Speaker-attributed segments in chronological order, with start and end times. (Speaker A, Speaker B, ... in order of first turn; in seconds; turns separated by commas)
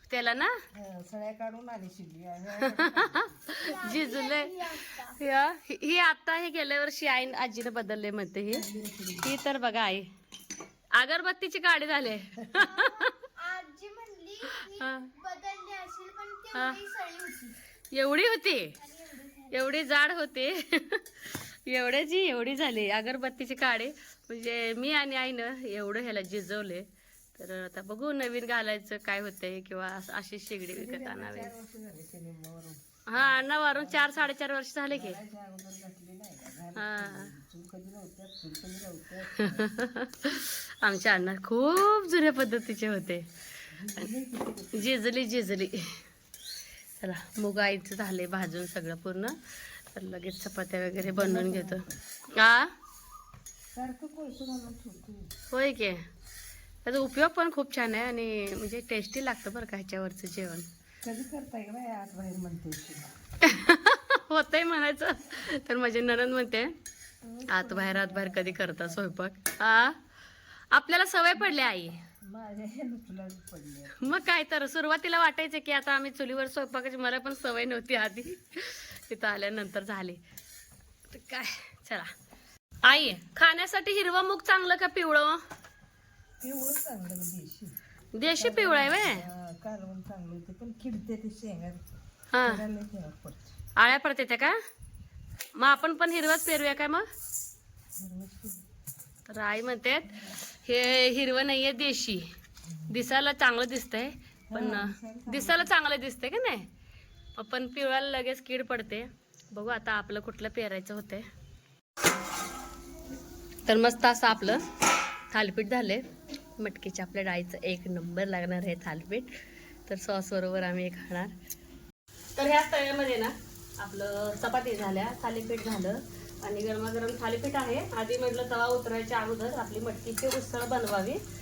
Speaker A: 0.1-0.6, Speaker B: 0.7-3.4, Speaker A: 2.6-8.7, Speaker C: 4.4-5.1, Speaker B: 8.5-9.3, Speaker A: 9.2-10.1, Speaker A: 10.9-13.2, Speaker C: 13.3-17.6, Speaker A: 14.4-15.1, Speaker A: 16.5-16.9, Speaker A: 17.9-18.8, Speaker C: 18.9-19.5, Speaker A: 19.5-31.5, Speaker B: 30.7-34.3, Speaker A: 33.1-35.2, Speaker B: 34.9-39.7, Speaker A: 36.8-37.3, Speaker A: 39.4-43.3, Speaker B: 43.7-44.9, Speaker A: 44.7-46.0, Speaker A: 47.0-49.4, Speaker A: 49.9-52.7, Speaker B: 51.0-52.0, Speaker B: 53.7-55.3, Speaker A: 55.5-56.1, Speaker A: 56.9-60.7, Speaker B: 61.0-63.1, Speaker A: 63.4-66.8, Speaker B: 67.2-69.1, Speaker A: 67.5-70.0, Speaker A: 70.7-72.0, Speaker B: 72.2-74.2, Speaker A: 74.0-80.2, Speaker A: 81.1-82.1, Speaker A: 82.8-85.4, Speaker B: 86.4-91.9, Speaker A: 88.1-89.2, Speaker A: 92.3-92.6, Speaker B: 92.4-93.5, Speaker A: 93.8-94.6, Speaker A: 95.6-97.1, Speaker B: 98.0-98.7, Speaker A: 99.3-102.3, Speaker A: 102.9-106.7, Speaker B: 104.5-105.7, Speaker A: 107.3-111.3, Speaker A: 113.7-114.7, Speaker A: 115.3-121.3, Speaker A: 122.4-131.2